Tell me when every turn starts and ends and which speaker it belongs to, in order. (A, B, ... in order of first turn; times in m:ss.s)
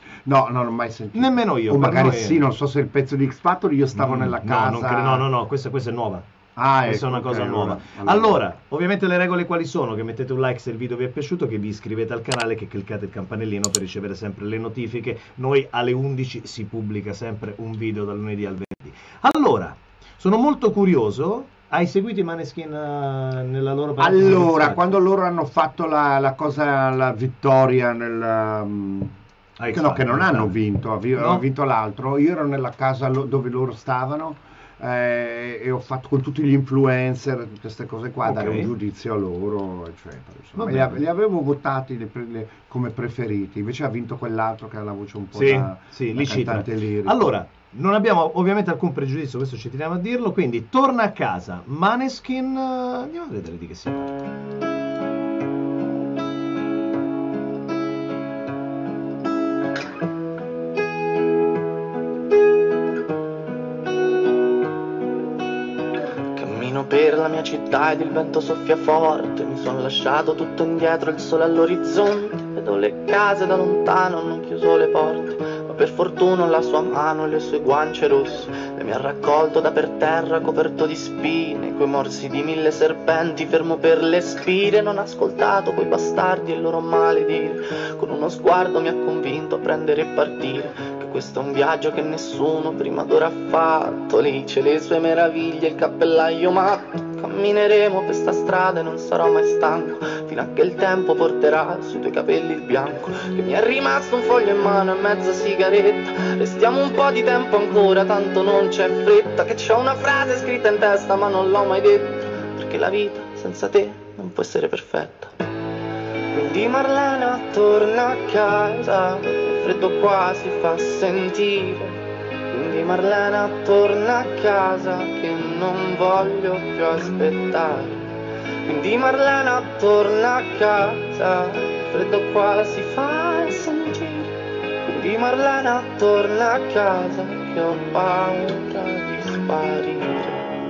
0:00.2-0:05.3 A
0:01.1-0:02.4 B
0:03.9-0:06.3 B
0:06.6-0:08.4 A
0:06.8-0:25.0 B
0:24.0-0:29.2 A
0:29.6-0:30.6 B
0:29.7-0:47.2 A
0:31.2-0:31.4 B
0:38.2-0:38.7 B
0:40.6-0:41.0 B
0:45.3-0:54.2 B
1:06.3-1:55.4 C
1:56.3-2:08.1 C
2:08.6-2:20.6 C